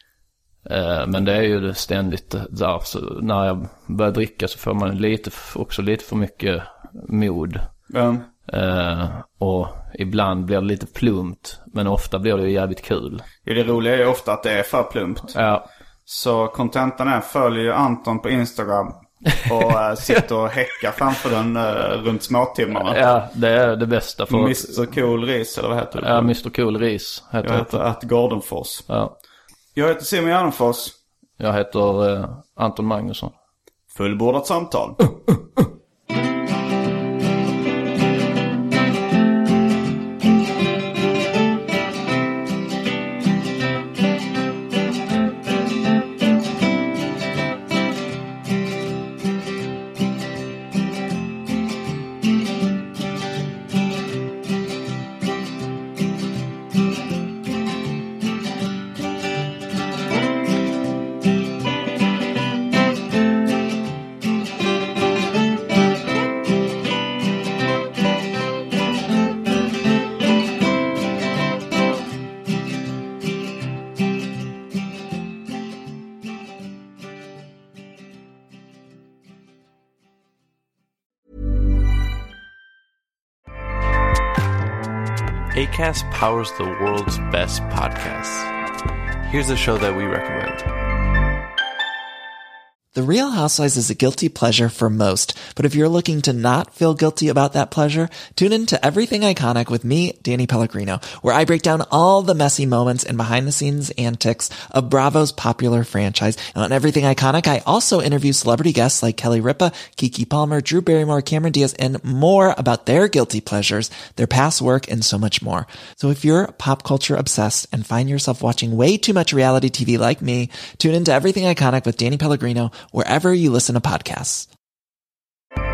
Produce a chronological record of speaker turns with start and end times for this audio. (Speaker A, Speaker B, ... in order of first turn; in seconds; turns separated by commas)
Speaker A: 0.6-7.7, Speaker B: 7.9-8.3, Speaker A: 8.5-13.3, Speaker B: 13.4-15.3, Speaker A: 15.3-15.7, Speaker B: 16.1-23.0, Speaker A: 22.7-24.9, Speaker B: 24.3-26.4, Speaker A: 25.9-27.8, Speaker B: 27.4-28.9, Speaker A: 28.9-29.2, Speaker B: 29.8-31.0, Speaker A: 31.4-33.3, Speaker B: 33.9-35.0, Speaker A: 35.3-35.7, Speaker C: 85.5-88.5, Speaker C: 89.2-90.7, Speaker D: 92.9-124.5